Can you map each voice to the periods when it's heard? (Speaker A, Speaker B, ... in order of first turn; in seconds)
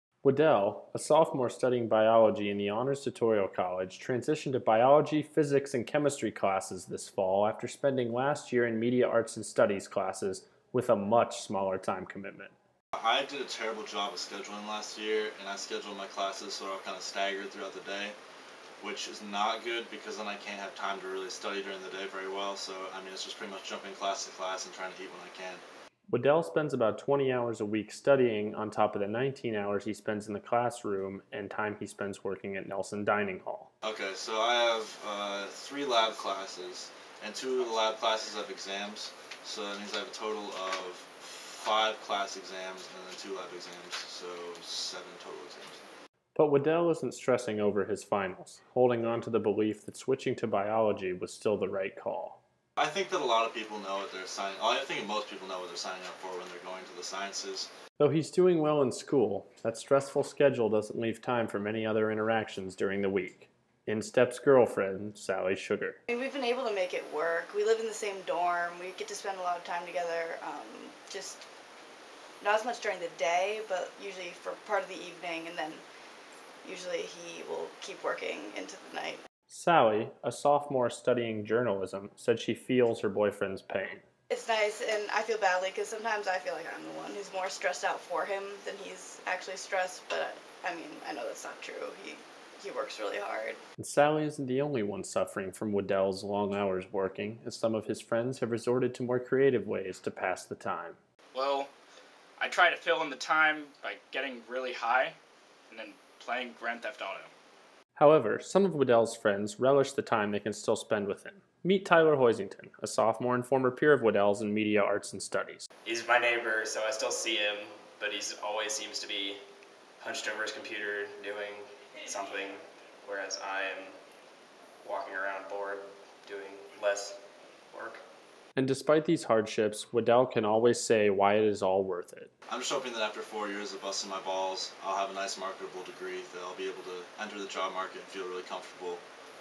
Speaker A: 0.2-12.5, 26.1-33.7, 46.4-52.4, 58.0-66.0, 79.5-84.0, 93.8-101.0, 108.0-115.7, 128.6-132.3
Speaker B: 13.0-18.2, 18.8-25.6, 33.8-45.8, 52.8-57.7, 132.5-139.0
Speaker C: 66.1-71.4, 72.4-75.8, 76.6-79.2, 84.3-93.6
Speaker D: 101.3-101.7, 102.4-105.2, 105.7-107.3
Speaker E: 115.8-119.4, 120.0-124.0, 124.8-127.2, 127.7-128.0